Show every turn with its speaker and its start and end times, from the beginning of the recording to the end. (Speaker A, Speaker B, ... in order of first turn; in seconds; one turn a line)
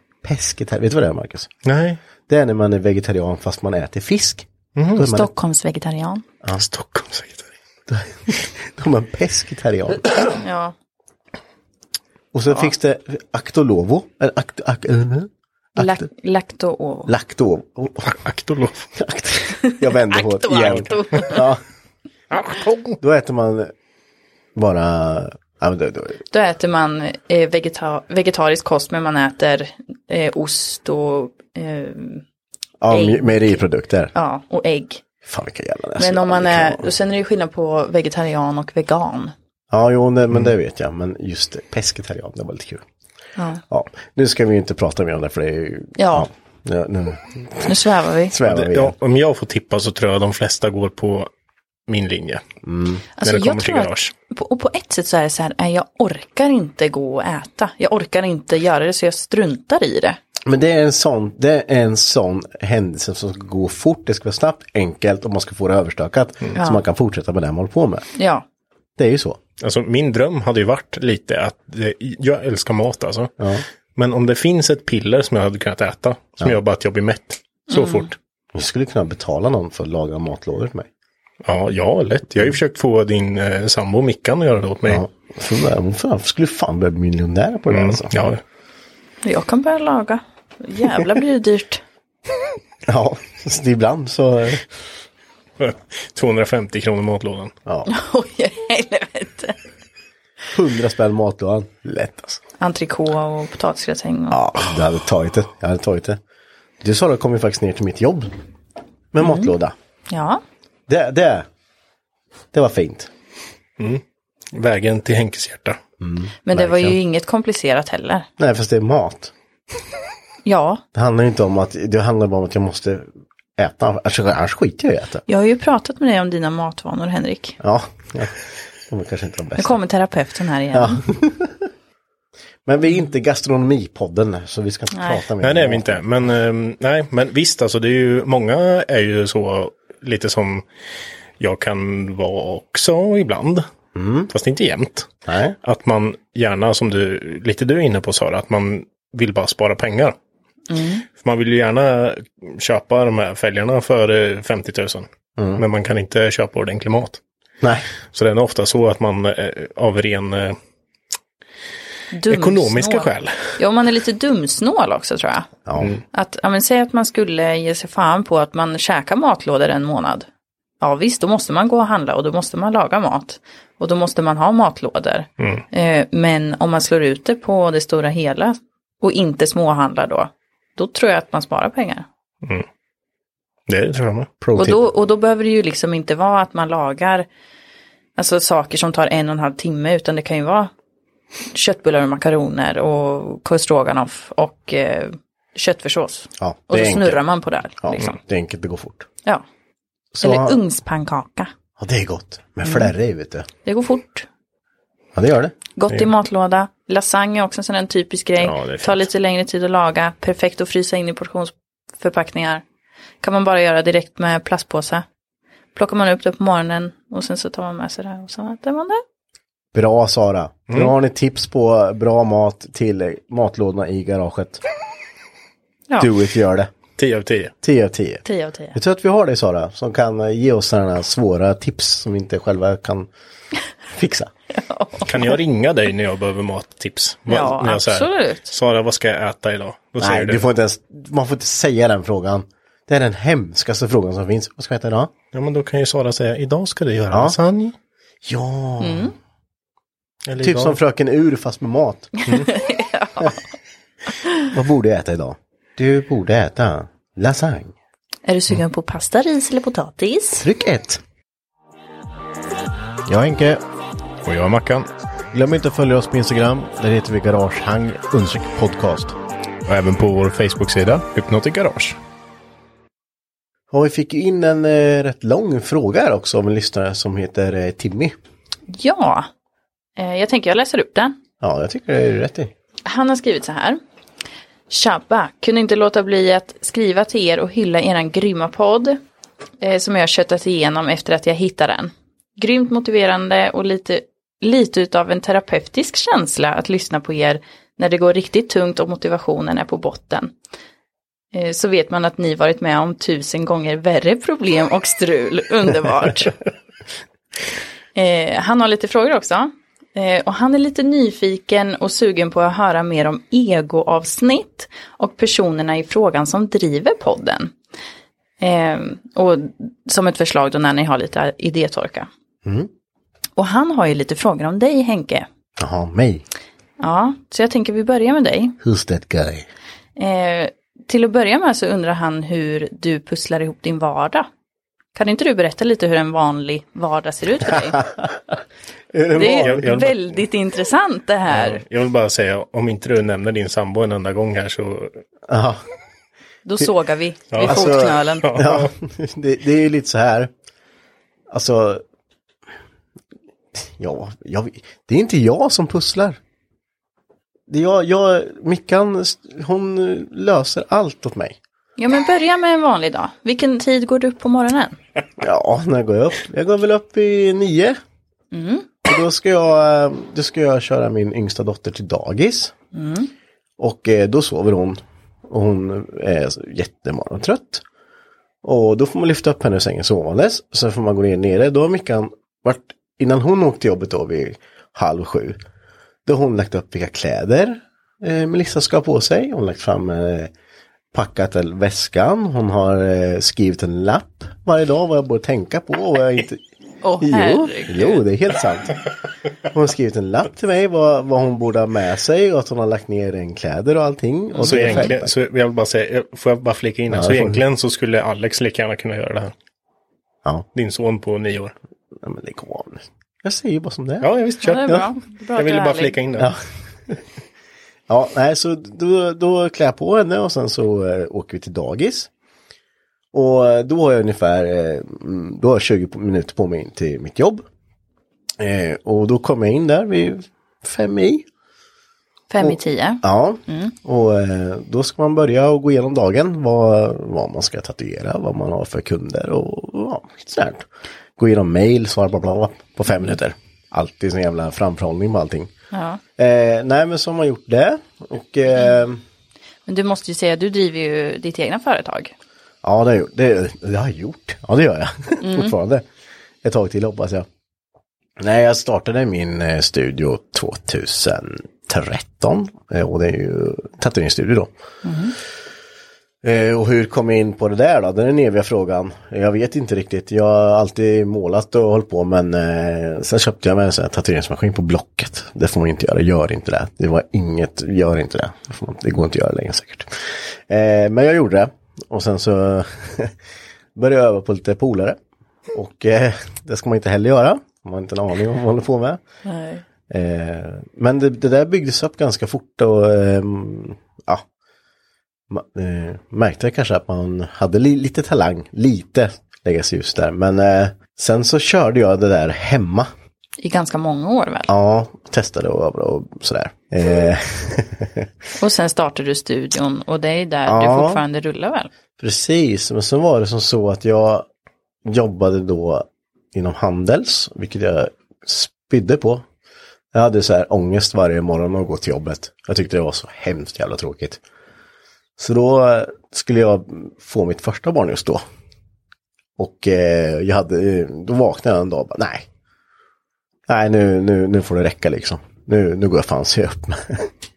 Speaker A: 0.2-1.5
Speaker B: 1.6-2.0
Speaker A: 2.3-5.3
Speaker B: 4.8-5.1
Speaker C: 5.0-6.2
Speaker B: 6.5-7.5
Speaker A: 7.9-10.3
Speaker C: 10.4-10.7
Speaker A: 12.3-16.1
Speaker C: 15.8-17.1
Speaker A: 17.1-18.1
Speaker B: 18.1-18.9
Speaker A: 18.9-21.6
Speaker C: 19.6-21.4
Speaker B: 22.3-23.0
Speaker A: 23.0-23.7
Speaker A: 24.6-26.2
Speaker C: 26.3-32.2
Speaker A: 32.8-34.1
Speaker C: 32.9-33.6
Speaker C: 34.1-35.0
Speaker A: 35.2-36.9
Speaker C: 36.0-39.3
Speaker A: 39.7-42.8
Speaker C: 43.4-43.6
Speaker A: 43.7-48.9
Speaker C: 46.0-46.3
Speaker C: 47.6-48.3
Speaker B: 48.4-51.3
Speaker B: 51.9-52.4
Speaker A: 52.6-53.0
Speaker C: 53.2-60.2
Speaker B: 53.2-54.1
Speaker A: 60.4-68.1
Speaker C: 66.5-66.8
Speaker C: 68.2-68.4
Speaker A: 69.0-69.4
Speaker B: 69.6-73.3
Speaker A: 73.4-73.6
Speaker B: 74.0-78.2
Speaker C: 77.7-78.1
Speaker A: 78.5-80.9
Speaker B: 81.4-85.0
Speaker A: 84.9-88.3
Speaker B: 87.7-88.4
Speaker C: 89.2-91.8
Speaker A: 92.8-94.6
Speaker B: 95.6-97.5
Speaker C: 97.9-99.5
Speaker A: 100.5-102.4
Speaker C: 102.6-104.4
Speaker A: 104.3-106.2
Speaker A: 106.8-108.3
Speaker A: 109.1-109.7
Speaker C: 109.2-109.5
Speaker C: 110.1-110.4
Speaker A: 110.9-111.5
Speaker A: 112.5-113.1
Speaker B: 114.5-115.8
Speaker A: 116.0-117.0
Speaker C: 116.5-118.3
Speaker A: 118.4-119.3
Speaker C: 120.4-120.8
Speaker A: 120.9-125.2
Speaker C: 125.3-127.6
Speaker A: 127.6-128.4
Speaker A: 128.9-129.8
Speaker C: 129.6-131.0
Speaker A: 130.7-131.7
Speaker A: 132.7-136.0
Speaker C: 134.9-135.2
Speaker B: 135.4-140.6
Speaker B: 141.4-143.7
Speaker A: 143.9-144.3
Speaker B: 144.3-145.1
Speaker A: 145.3-145.6
Speaker B: 145.6-150.2
Speaker C: 150.7-151.0
Speaker B: 151.2-157.2
Speaker A: 155.4-155.6
Speaker A: 157.6-157.9
Speaker B: 158.1-160.6
Speaker C: 162.1-165.5
Speaker B: 162.3-163.5
Speaker A: 165.7-165.9
Speaker C: 166.1-170.2
Speaker C: 170.8-182.1
Speaker B: 183.7-184.3
Speaker A: 184.4-184.8
Speaker C: 184.6-187.3
Speaker C: 188.2-190.7
Speaker C: 191.5-198.2
Speaker A: 196.4-197.2
Speaker A: 197.8-199.1
Speaker A: 200.1-200.6
Speaker C: 200.2-201.5
Speaker A: 201.8-203.5
Speaker C: 202.6-202.9
Speaker C: 203.6-204.3
Speaker A: 205.1-205.5
Speaker C: 205.8-212.6
Speaker B: 208.4-209.1
Speaker C: 213.2-215.0
Speaker C: 215.7-219.0
Speaker A: 219.7-224.6
Speaker A: 226.0-226.7
Speaker B: 227.0-227.5
Speaker A: 227.6-233.1
Speaker C: 228.2-228.8
Speaker A: 233.9-234.3
Speaker C: 234.5-235.1
Speaker B: 235.1-240.4
Speaker C: 237.3-238.5
Speaker A: 240.0-245.1
Speaker B: 245.3-247.7
Speaker A: 247.1-247.3
Speaker A: 248.2-249.1
Speaker C: 248.8-249.1
Speaker B: 250.3-250.8
Speaker A: 250.4-252.1
Speaker C: 252.2-253.4
Speaker C: 254.2-254.5
Speaker A: 254.5-257.7
Speaker C: 258.3-260.4
Speaker A: 260.4-261.0
Speaker A: 263.1-263.6
Speaker B: 264.2-264.9
Speaker A: 265.3-269.2
Speaker B: 269.6-272.0
Speaker A: 273.7-278.1
Speaker C: 278.7-279.3
Speaker C: 280.0-281.1
Speaker A: 281.4-282.5
Speaker C: 282.9-283.8
Speaker C: 284.7-289.0
Speaker C: 289.6-300.3
Speaker C: 301.3-306.3
Speaker C: 307.9-317.5
Speaker C: 318.4-322.1
Speaker A: 322.4-322.7
Speaker C: 323.4-325.2
Speaker A: 325.6-326.2
Speaker C: 326.8-328.6
Speaker A: 328.6-329.5
Speaker C: 330.0-334.3
Speaker C: 334.9-337.8
Speaker A: 338.9-339.7
Speaker C: 339.1-341.6
Speaker B: 339.2-339.9
Speaker B: 341.3-345.0
Speaker A: 345.3-345.6
Speaker C: 346.4-348.3
Speaker B: 347.3-348.7
Speaker A: 347.4-350.3
Speaker A: 351.3-351.8
Speaker A: 353.5-356.2
Speaker A: 357.5-361.4
Speaker C: 361.8-364.8
Speaker A: 365.2-367.8
Speaker C: 368.3-368.7
Speaker A: 368.9-372.5
Speaker C: 372.7-373.1
Speaker A: 373.6-377.6
Speaker A: 378.4-385.4
Speaker A: 386.1-390.3
Speaker A: 390.9-396.4
Speaker C: 396.8-398.0
Speaker A: 397.0-398.8
Speaker A: 399.4-405.1
Speaker C: 404.3-404.9
Speaker B: 404.4-409.3
Speaker A: 406.9-407.4
Speaker B: 410.5-411.5
Speaker A: 412.0-414.1
Speaker B: 414.0-416.3
Speaker C: 414.4-416.0
Speaker A: 417.9-422.1
Speaker A: 423.1-427.4
Speaker A: 428.4-431.2
Speaker C: 432.3-433.7
Speaker A: 432.4-440.6
Speaker A: 441.2-445.5
Speaker C: 445.7-446.0
Speaker A: 446.2-449.0
Speaker C: 449.7-452.1
Speaker A: 452.6-455.8
Speaker C: 455.2-455.5
Speaker A: 456.4-457.3
Speaker A: 458.2-464.5
Speaker C: 464.8-465.1
Speaker A: 466.2-483.2
Speaker A: 483.7-485.0
Speaker A: 485.5-489.0
Speaker C: 489.2-489.6
Speaker A: 489.9-494.2
Speaker A: 495.3-502.9
Speaker C: 503.4-504.5
Speaker A: 504.5-508.1
Speaker C: 508.4-511.7
Speaker A: 510.4-511.0
Speaker A: 512.0-514.2
Speaker A: 514.8-519.2
Speaker A: 519.9-524.2
Speaker A: 525.2-528.2
Speaker A: 529.4-532.2
Speaker A: 533.5-537.1